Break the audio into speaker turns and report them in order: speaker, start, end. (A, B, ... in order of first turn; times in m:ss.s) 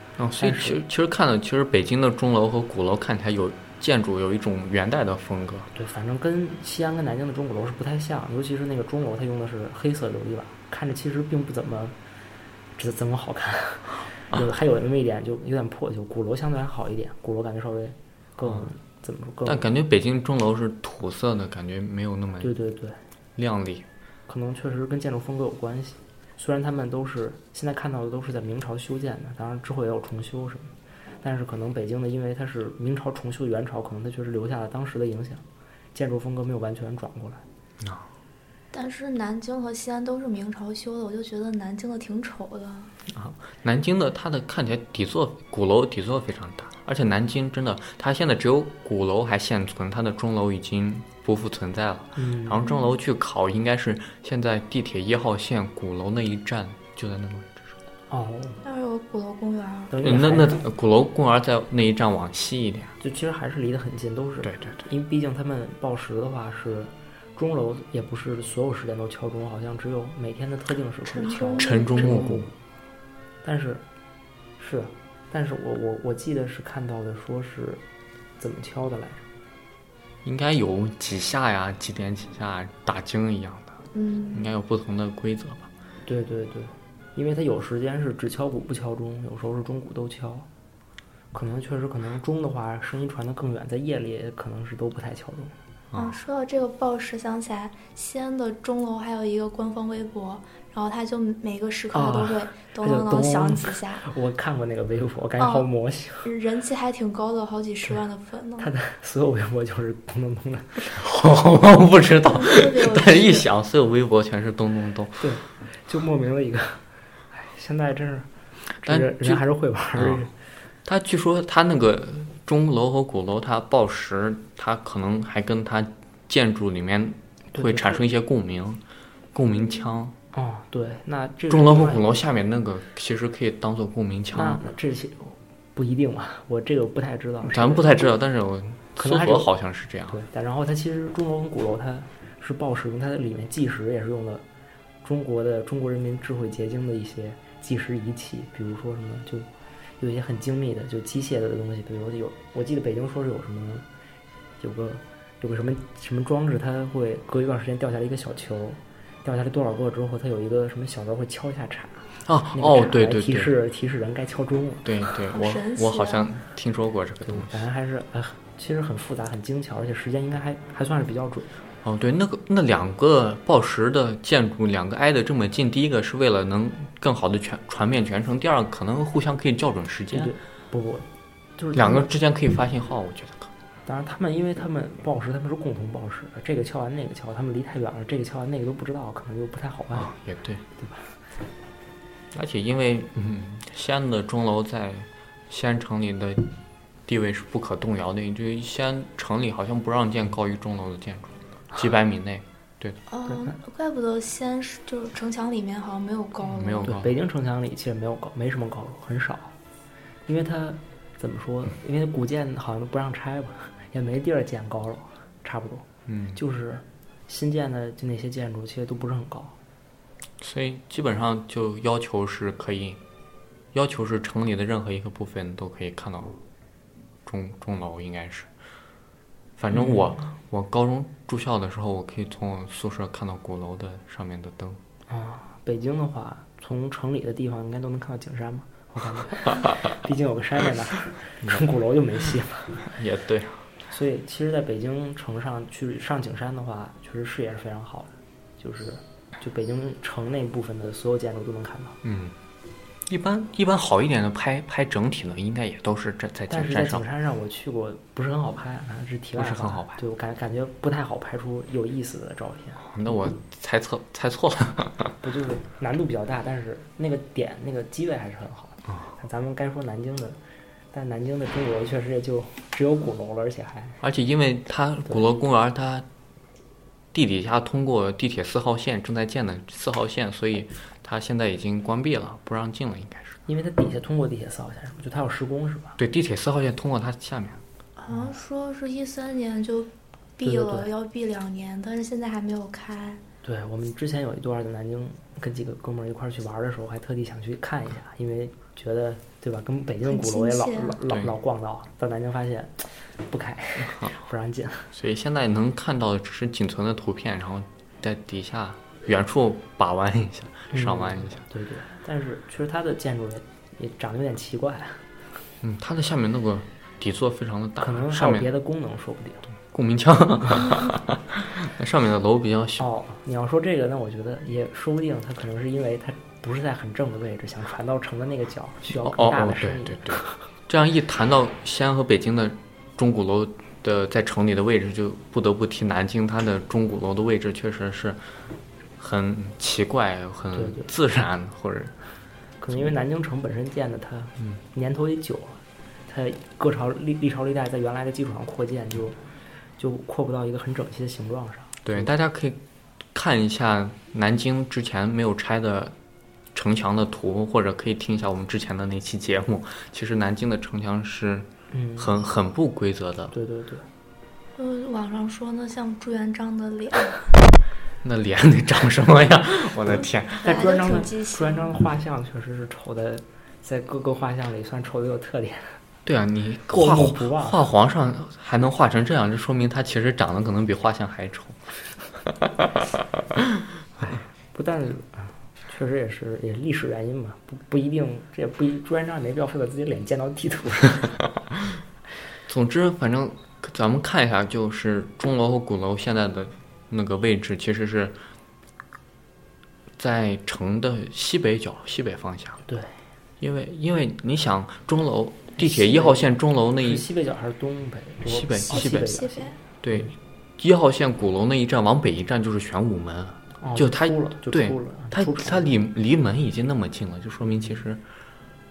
0:00.2-0:05.7 A
0:00.4-0:00.8 B
0:05.7-0:12.0 B
0:12.8-0:19.6 B
0:18.4-0:18.7 A
0:19.4-0:22.5 A
0:22.4-0:23.0 B
0:23.4-0:23.8 A
0:24.3-0:37.4 B
0:37.8-0:38.1 A
0:38.7-0:42.9 C
0:43.1-0:57.7 A
0:52.2-0:52.7 B
0:52.6-0:52.9 C
0:58.1-0:58.6 B
0:58.6-0:59.9 C
0:59.9-1:00.6 B
1:00.0-1:02.9 A
1:03.0-1:12.5 B
1:04.4-1:04.8 A
1:11.0-1:12.2 C
1:11.6-1:12.5 A
1:13.4-1:13.8 B
1:14.6-1:17.8 B
1:18.4-1:19.2 B
1:20.2-1:25.7 A
1:23.9-1:24.5 C
1:26.0-1:30.5 B
1:31.3-1:35.5 B
1:35.9-1:36.2 A
1:35.9-1:44.0 C
1:41.9-1:46.3 B
1:45.4-1:45.7 C
1:46.2-1:48.7 C
1:48.6-1:51.0 B
1:50.8-1:55.3 A
1:52.2-1:53.4 C
1:55.2-1:58.3 B
1:58.8-2:00.3 B
1:58.8-1:59.4 A
1:59.9-2:00.3 A
2:00.8-2:08.8 A
2:07.5-2:08.0 B
2:09.3-2:10.1 A
2:10.3-2:12.2 B
2:11.5-2:14.6 A
2:14.3-2:18.1 B
2:17.4-2:20.2 A
2:19.0-2:19.5 B
2:20.1-2:24.4 B
2:25.0-2:33.8 B
2:34.6-2:45.1 B
2:42.2-2:43.5 A
2:44.8-2:47.5 A
2:45.3-2:46.4 C
2:47.2-2:51.5 B
2:51.8-3:00.3 A
3:00.1-3:02.1 B
3:01.7-3:03.5 A
3:03.8-3:10.1 B
3:09.9-3:10.6 A
3:10.8-3:11.1 B
3:12.3-3:16.5 A
3:17.0-3:23.0 A
3:23.1-3:26.9 C
3:26.4-3:27.1 A
3:26.8-3:29.5 B
3:30.3-3:39.6 B
3:36.0-3:36.4 A
3:40.4-3:43.0 A
3:43.7-3:46.4 A
3:47.2-3:48.5 A
3:49.6-3:54.8 A
3:49.7-3:50.2 B
3:55.1-4:02.8 B
4:02.9-4:03.7 A
4:03.9-4:12.0 B
4:12.0-4:12.3 A
4:13.1-4:17.0 A
4:16.5-4:22.8 B
4:19.4-4:20.0 A
4:22.8-4:25.1 A
4:25.2-4:30.4 B
4:30.9-4:34.0 B
4:34.0-4:36.0 A
4:37.1-4:43.4 A
4:43.5-4:46.0 B
4:46.0-4:47.6 A
4:48.0-4:53.2 C
4:48.1-4:48.4 B
4:50.4-4:50.9 B
4:53.4-5:04.9 B
5:00.0-5:01.0 C
5:04.9-5:11.4 A
5:10.7-5:15.0 B
5:15.6-5:18.5 A
5:17.8-5:19.4 B
5:19.7-5:22.8 A
5:22.8-5:30.4 B
5:28.9-5:38.2 A
5:39.0-5:41.9 A
5:40.5-5:40.9 B
5:42.6-5:49.2 B
5:49.8-5:52.1 B
5:51.8-5:52.6 A
5:53.1-5:55.9 A
5:56.5-6:03.3 A
6:01.7-6:02.2 B
6:03.3-6:03.9 B
6:04.6-6:07.3 C
6:08.0-6:10.6 A
6:10.4-6:11.7 C
6:10.4-6:15.8 B
6:16.0-6:21.6 A
6:16.7-6:17.6 B
6:22.4-6:22.9 A
6:24.0-6:31.2 B
6:32.5-6:38.2 A
6:40.0-6:42.6 A
6:42.7-6:42.9 B
6:43.4-6:47.1 A
6:45.6-6:50.1 B
6:48.2-6:49.2 A
6:48.7-6:49.6 C
6:49.8-6:58.0 A
6:53.6-6:55.8 B